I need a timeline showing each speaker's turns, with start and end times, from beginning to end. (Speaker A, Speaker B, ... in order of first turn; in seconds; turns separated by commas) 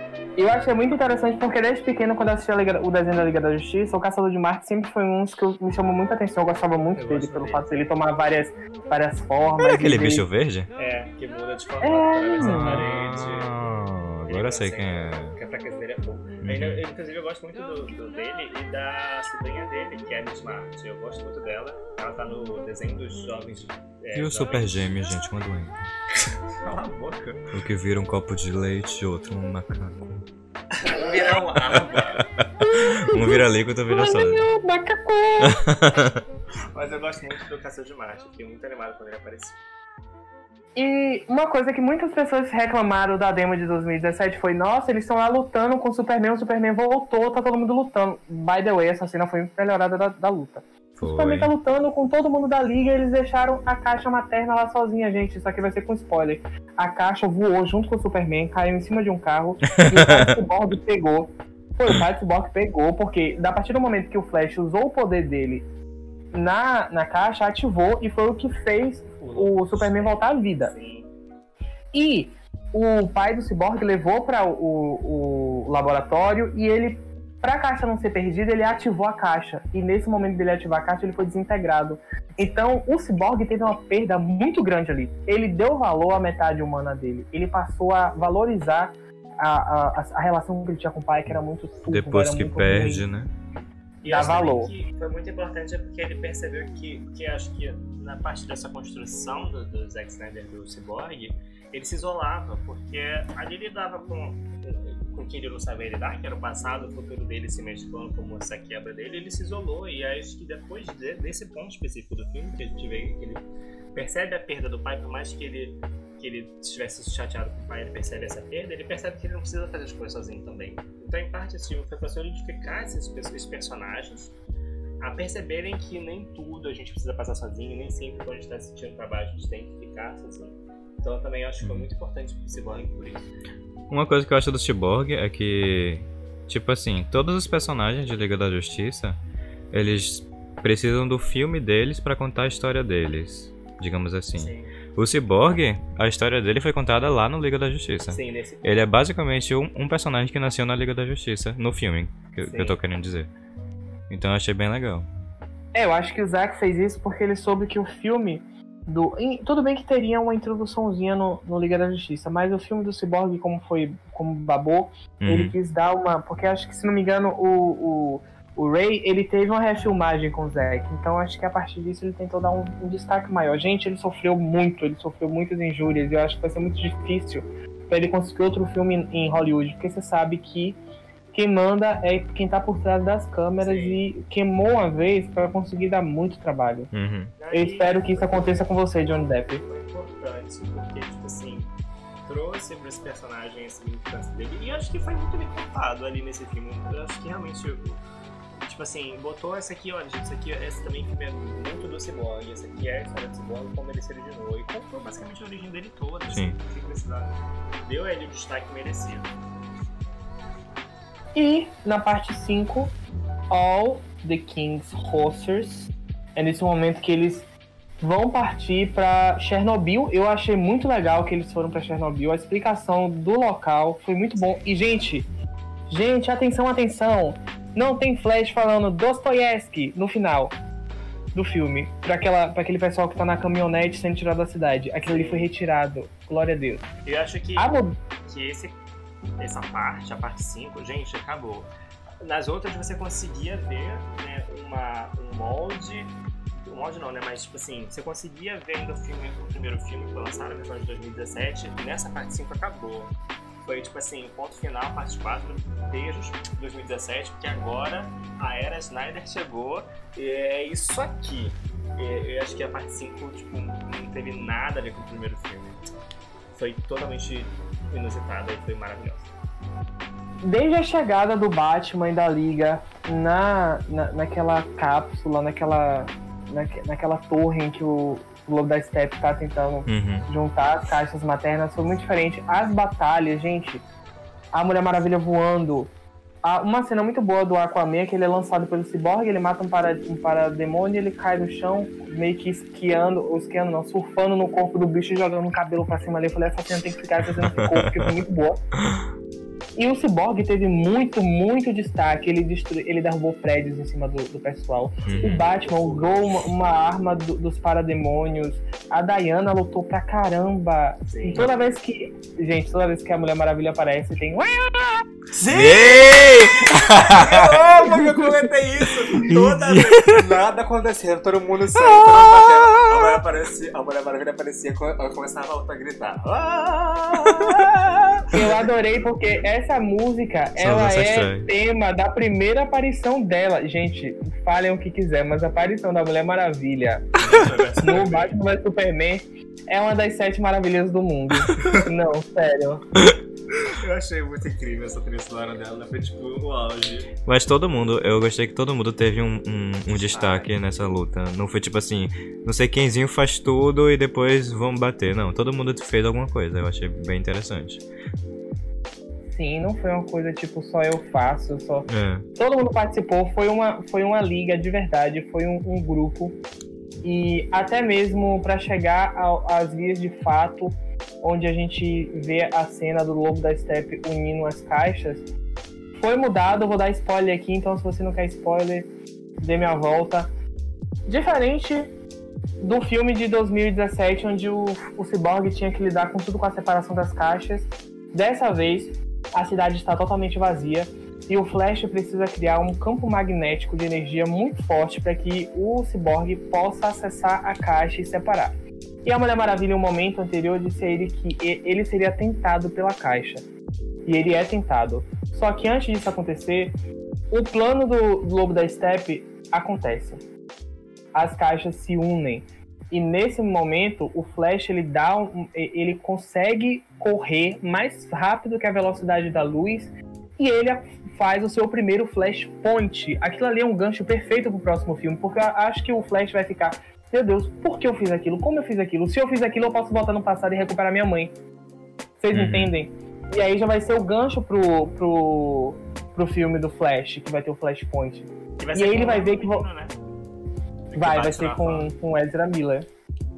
Speaker A: 0.4-10.2, Speaker B: 7.0-7.7, Speaker C: 9.6-10.7, Speaker B: 10.8-13.7, Speaker A: 11.8-12.8, Speaker C: 12.4-15.3, Speaker B: 14.3-24.9, Speaker C: 16.4-16.8, Speaker C: 24.1-25.8, Speaker B: 26.6-27.5, Speaker C: 27.5-30.2, Speaker B: 30.8-32.2, Speaker C: 31.7-34.5, Speaker A: 32.6-35.7, Speaker C: 35.4-36.2, Speaker B: 36.7-39.6, Speaker A: 40.8-65.7, Speaker C: 51.0-51.5, Speaker C: 59.8-60.4, Speaker A: 66.3-70.7, Speaker B: 69.2-71.1, Speaker A: 71.9-93.1, Speaker C: 91.9-93.3, Speaker B: 94.0-124.3, Speaker A: 94.1-94.7, Speaker B: 125.0-133.3, Speaker C: 131.6-131.9, Speaker C: 133.9-139.2, Speaker C: 139.7-153.3, Speaker B: 144.3-144.7, Speaker B: 148.1-148.9, Speaker B: 152.4-152.8, Speaker C: 154.1-155.1, Speaker A: 155.7-180.8, Speaker C: 165.2-165.5, Speaker A: 181.3-186.9, Speaker B: 183.6-184.0, Speaker C: 186.9-187.3, Speaker B: 187.4-188.7, Speaker A: 187.5-189.6, Speaker B: 189.6-191.7, Speaker B: 192.3-198.0, Speaker B: 198.6-209.3, Speaker C: 206.3-206.6, Speaker A: 211.3-212.9, Speaker A: 213.5-217.5, Speaker A: 218.0-225.3, Speaker A: 225.9-230.6, Speaker A: 231.3-236.9, Speaker B: 235.1-235.5, Speaker B: 237.1-238.8, Speaker A: 237.6-237.9, Speaker B: 239.4-241.7, Speaker B: 242.2-246.1, Speaker B: 246.7-265.8, Speaker B: 266.5-269.3, Speaker A: 270.4-283.8, Speaker C: 279.9-280.3, Speaker A: 284.5-285.9, Speaker A: 286.4-298.6, Speaker C: 297.6-298.1, Speaker A: 299.8-315.0, Speaker C: 305.0-305.4, Speaker B: 305.1-306.5, Speaker B: 311.1-311.5, Speaker C: 315.4-317.6, Speaker B: 315.4-328.6, Speaker A: 317.8-318.5, Speaker C: 319.2-320.4, Speaker C: 321.8-323.2, Speaker C: 327.4-327.7, Speaker A: 328.3-342.9, Speaker C: 330.6-331.5, Speaker B: 337.2-338.4, Speaker B: 343.6-347.1, Speaker C: 347.3-357.8, Speaker B: 349.9-350.5, Speaker A: 359.3-366.4, Speaker C: 361.9-362.3, Speaker A: 367.0-375.3, Speaker A: 376.0-378.9, Speaker A: 379.4-380.3, Speaker A: 381.1-381.9, Speaker A: 382.6-398.5, Speaker A: 399.1-403.4, Speaker A: 404.1-406.7, Speaker A: 407.3-410.2, Speaker A: 411.1-431.3, Speaker A: 432.2-439.6, Speaker C: 432.3-432.7, Speaker B: 438.6-440.0, Speaker B: 440.9-441.9, Speaker A: 441.0-442.9